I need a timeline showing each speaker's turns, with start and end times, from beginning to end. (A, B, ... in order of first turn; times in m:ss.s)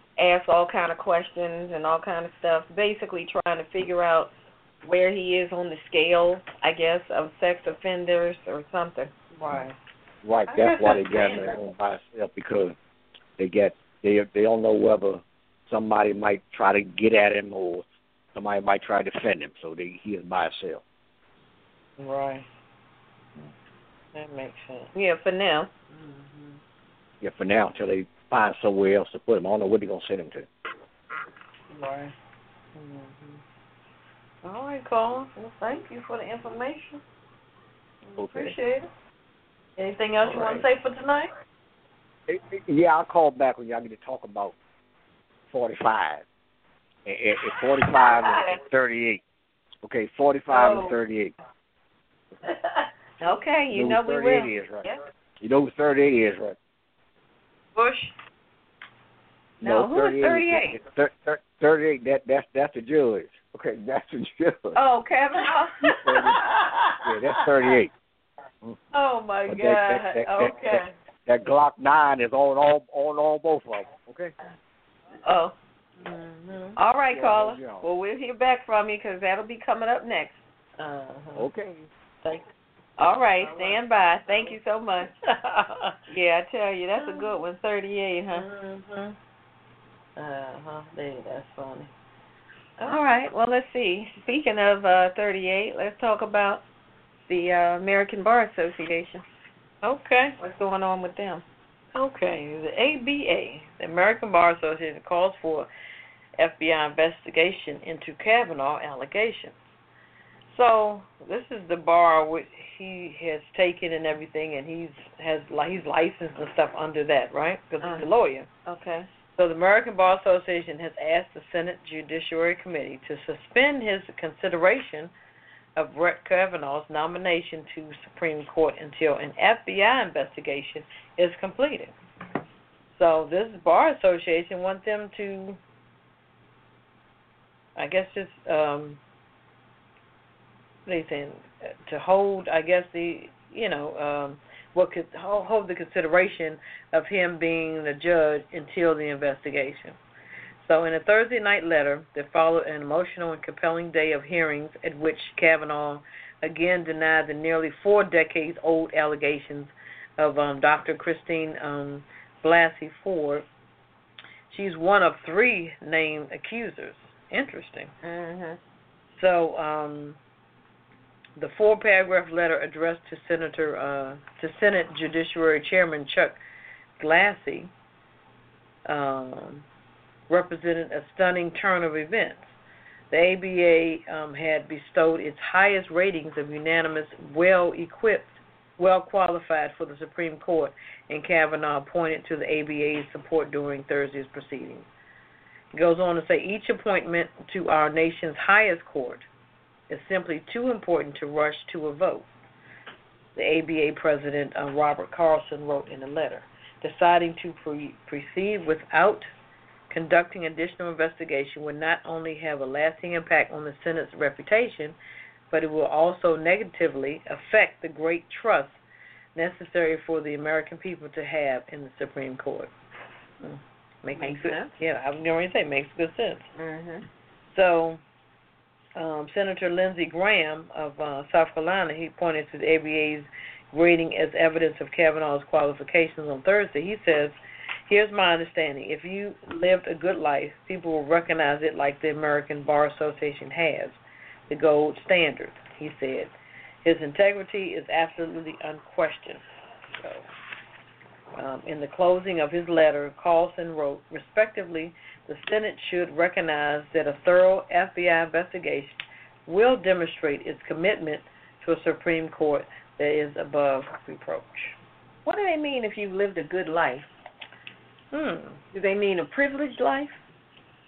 0:00.2-0:09.1 A
0:09.3-0:09.8 B
0:10.2-0:12.8 C
0:10.5-0:11.6 B
0:13.4-0:20.8 C
0:22.0-0:22.4 B
0:24.1-0:24.9 B
0:24.9-0:25.7 A
0:25.9-0:26.6 B
0:27.2-0:30.5 C
0:31.7-0:32.1 B
0:32.7-0:33.4 B
0:34.4-0:37.0 B
0:38.0-0:38.9 B
0:38.2-0:38.6 C
0:39.8-0:41.3 B
0:40.2-0:40.6 C
0:42.3-0:44.6 C
0:45.5-0:46.2 C
0:47.0-0:49.2 C
0:49.8-0:51.3 C
0:50.5-0:51.0 B
0:52.5-0:52.9 B
0:53.2-0:54.5 A
0:53.7-0:56.6 C
0:57.7-0:58.1 B
0:59.6-1:00.8 A
0:59.6-1:04.8 C
1:04.7-1:05.8 A
1:05.8-1:06.5 C
1:05.9-1:07.4 B
1:07.0-1:07.9 C
1:08.9-1:10.9 B
1:09.5-1:14.3 C
1:15.2-1:15.5 A
1:16.0-1:16.8 B
1:16.8-1:20.4 A
1:17.1-1:17.8 C
1:20.8-1:21.5 B
1:21.4-1:21.9 C
1:23.0-1:25.1 A
1:23.4-1:24.6 B
1:25.2-1:26.0 B
1:26.1-1:28.5 A
1:27.0-1:27.4 B
1:28.3-1:29.2 B
1:30.2-1:31.9 B
1:32.8-1:36.6 A
1:37.3-1:39.2 A
1:39.8-1:40.4 B
1:40.4-1:41.4 A
1:41.9-1:45.7 B
1:46.4-1:49.6 B
1:50.5-1:58.5 B
1:57.8-1:58.1 A
1:58.6-1:59.1 A
1:59.4-2:05.1 B
2:05.8-2:11.9 B
2:12.9-2:15.6 B
2:17.8-2:19.0 B
2:20.8-2:30.0 B
2:30.6-2:43.4 B
2:44.5-2:47.9 B
2:48.0-2:48.6 A
2:49.1-2:50.2 B
2:51.4-2:56.4 B
2:57.0-2:57.7 B
2:58.8-2:59.6 B
3:00.3-3:02.5 B
3:03.1-3:14.9 B
3:15.7-3:19.2 B
3:19.9-3:22.3 B
3:23.3-3:29.3 B
3:29.9-3:35.0 B
3:35.5-3:38.8 B
3:39.3-3:42.7 B
3:43.4-3:46.5 B
3:44.1-3:44.7 A
3:46.6-3:47.0 A
3:47.5-3:48.0 B
3:49.0-3:57.4 B
3:57.9-4:04.0 B
4:04.5-4:06.3 B
4:06.8-4:09.4 B
4:10.0-4:10.3 B
4:11.3-4:24.8 B
4:25.2-4:27.1 A
4:28.1-4:28.6 B
4:28.7-4:30.2 A